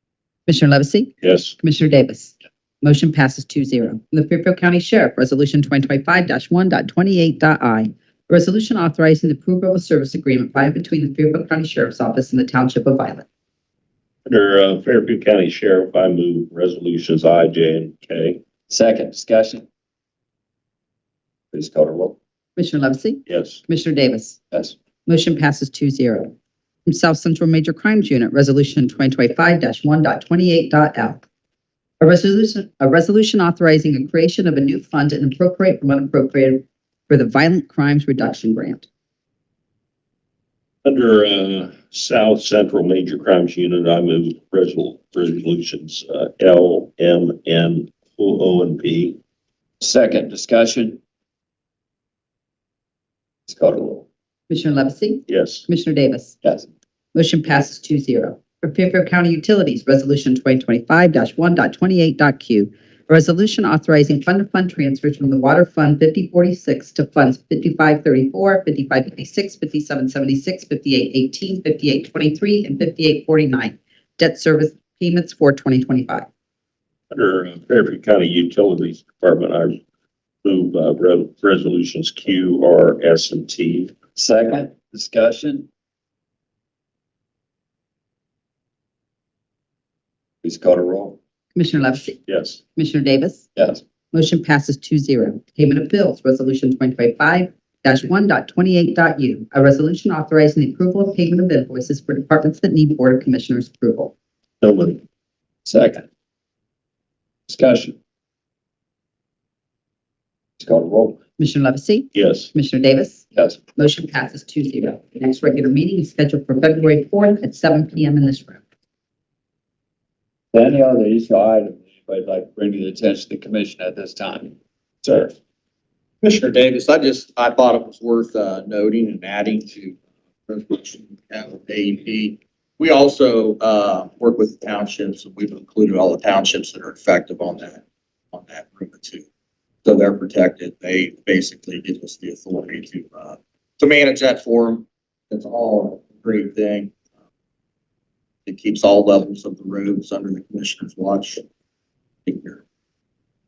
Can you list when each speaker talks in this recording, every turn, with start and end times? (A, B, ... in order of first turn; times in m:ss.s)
0:00.5-0:13.2 A
0:01.2-0:01.5 B
0:14.2-0:18.4 B
0:18.7-0:19.6 C
0:21.5-0:22.2 C
0:22.6-0:24.4 A
0:23.3-0:23.6 B
0:25.0-0:26.3 A
0:26.8-0:31.2 A
0:32.0-0:38.9 A
0:40.8-0:49.2 B
0:49.8-0:51.0 C
0:53.5-0:54.0 C
0:54.5-0:56.3 A
0:55.3-0:55.6 B
0:56.4-0:56.7 C
0:57.1-1:16.3 A
1:17.1-1:19.8 B
1:20.4-1:23.9 B
1:24.1-1:25.7 C
1:30.4-1:31.2 C
1:31.5-1:32.2 A
1:32.3-1:32.6 B
1:32.8-1:33.4 A
1:33.6-1:33.8 C
1:34.1-1:44.1 A
1:44.6-1:45.0 B
1:45.6-1:46.0 C
1:47.5-1:48.0 C
1:50.6-1:51.2 C
1:51.4-1:53.2 A
1:52.1-1:52.5 B
1:53.3-1:53.6 C
1:53.7-1:58.6 A
2:00.5-2:05.3 C
2:06.2-2:19.2 D
2:19.8-2:26.9 D
2:28.4-2:31.4 D
2:32.2-2:32.6 D